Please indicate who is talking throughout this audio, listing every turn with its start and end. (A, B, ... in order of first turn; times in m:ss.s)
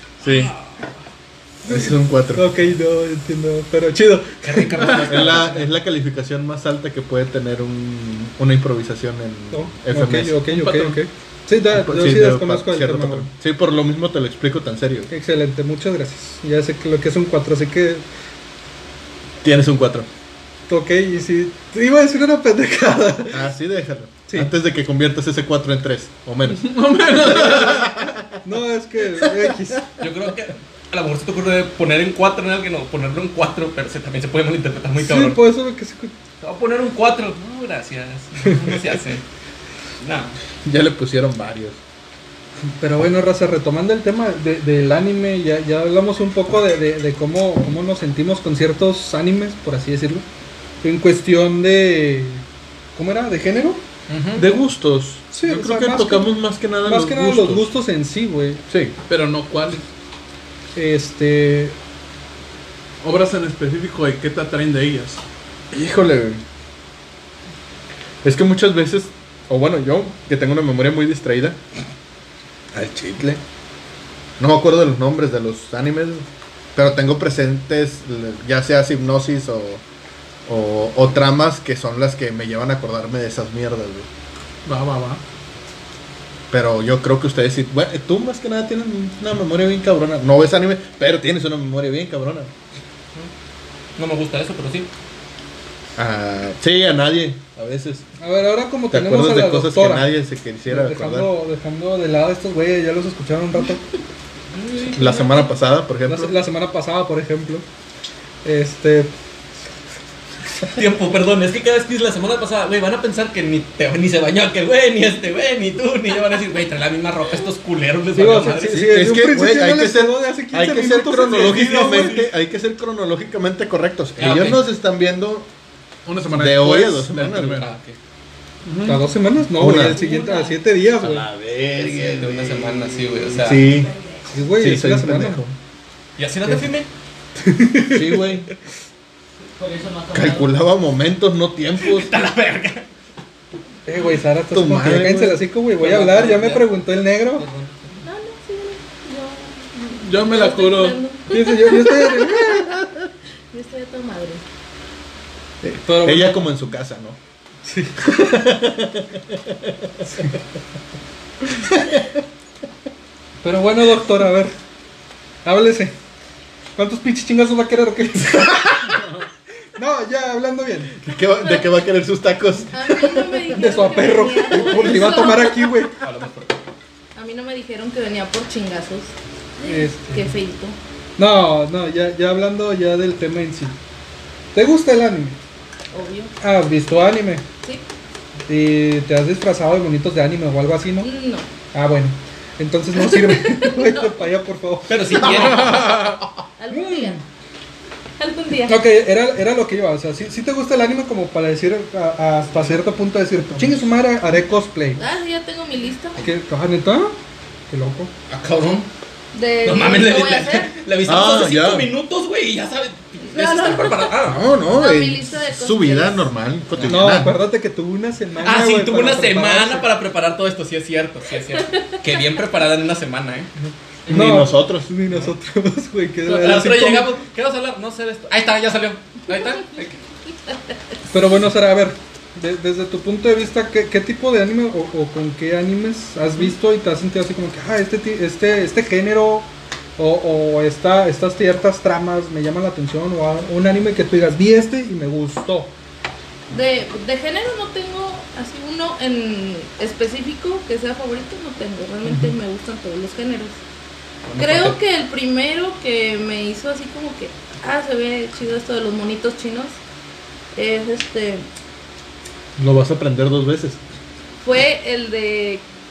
0:00.2-0:00.5 A
0:00.2-0:00.9 B
0:01.6-0:02.5 A
0:02.3-0:04.9 C
0:04.4-0:05.7 B
0:05.0-0:10.4 A
0:09.5-0:13.3 C
0:10.5-0:11.0 D
0:11.7-0:15.1 A
0:15.1-0:18.0 C
0:19.4-0:20.1 A
0:20.7-0:23.4 C
0:23.3-0:28.4 A
0:26.5-0:28.0 D
0:28.4-0:29.9 C
0:29.2-0:29.6 A
0:30.0-0:35.4 B
0:35.0-0:36.1 C
0:36.4-0:39.2 B
0:40.0-0:40.3 B
0:40.6-0:41.8 A
0:42.8-0:50.2 C
0:50.8-0:53.8 C
0:54.1-0:54.4 B
0:54.4-0:57.7 A
0:55.3-0:58.6 C
0:58.7-0:58.9 A
0:59.1-0:59.9 D
1:00.7-1:01.8 C
1:03.0-1:05.2 D
1:05.7-1:06.4 A
1:08.2-1:11.6 A
1:12.7-1:13.4 A
1:14.4-1:19.8 A
1:20.5-1:24.1 A
1:24.6-1:25.2 D
1:26.5-1:32.5 A
1:34.0-1:34.9 B
1:36.0-1:38.0 A
1:38.2-1:40.1 C
1:38.9-1:41.3 A
1:40.7-1:43.8 C
1:44.5-1:45.5 B
1:44.9-1:46.4 A
1:46.1-1:47.6 C
1:48.4-1:49.1 C
1:50.6-1:58.9 B
1:58.1-2:02.2 C
1:58.7-2:05.5 A
2:01.2-2:02.2 D
2:04.2-2:04.6 B
2:06.0-2:07.7 D
2:06.3-2:07.6 A
2:07.6-2:08.0 B
2:08.6-2:09.1 D
2:08.8-2:11.2 C
2:09.6-2:10.1 A
2:10.1-2:10.4 E
2:11.0-2:13.9 A
2:11.8-2:13.7 B
2:14.3-2:15.4 C
2:14.6-2:15.6 A
2:16.2-2:16.9 B
2:17.4-2:18.2 C
2:17.9-2:18.5 A
2:19.6-2:20.5 B
2:20.1-2:22.3 A
2:21.8-2:22.9 B
2:23.8-2:27.5 C
2:24.5-2:25.5 A
2:25.7-2:28.0 B
2:28.0-2:32.7 E
2:30.0-2:31.0 D
2:31.3-2:32.8 C
2:33.5-2:34.4 E
2:35.6-2:37.2 A
2:35.8-2:36.4 C
2:37.6-2:38.1 C
2:38.0-2:39.9 A
2:41.6-2:42.0 A
2:43.4-2:44.5 C
2:45.4-2:45.9 C
2:46.8-2:49.0 C
2:49.8-2:50.9 C
2:51.0-2:53.4 A
2:52.7-2:55.7 E
2:53.5-2:56.0 C
2:56.0-2:56.6 B
2:57.2-3:00.8 E
2:59.6-3:00.2 C
3:01.2-3:03.8 C
3:04.5-3:05.4 C
3:05.9-3:06.3 E
3:06.4-3:07.4 C
3:08.5-3:11.1 C
3:11.0-3:11.5 E
3:11.7-3:15.5 C
3:13.0-3:14.2 E
3:14.9-3:16.2 B
3:15.2-3:16.2 D
3:16.6-3:17.2 E
3:16.7-3:17.2 C
3:18.2-3:18.8 E
3:18.7-3:25.0 C
3:25.0-3:26.2 E
3:26.2-3:27.2 C
3:27.7-3:28.1 C
3:28.3-3:28.9 B
3:29.3-3:30.8 E
3:29.6-3:34.4 B
3:31.0-3:31.9 A
3:33.2-3:34.1 E
3:34.2-3:37.4 A
3:34.7-3:36.3 E
3:36.7-3:37.2 B
3:36.8-3:39.8 C
3:38.4-3:43.5 B
3:41.6-3:42.0 E
3:44.1-3:44.9 A
3:44.1-3:47.1 C
3:46.2-3:50.0 B
3:51.1-4:05.7 C
4:06.5-4:13.6 E
4:14.3-4:14.8 B
4:14.4-4:19.8 E
4:20.5-4:21.5 E
4:22.6-4:23.8 A
4:24.4-4:25.6 E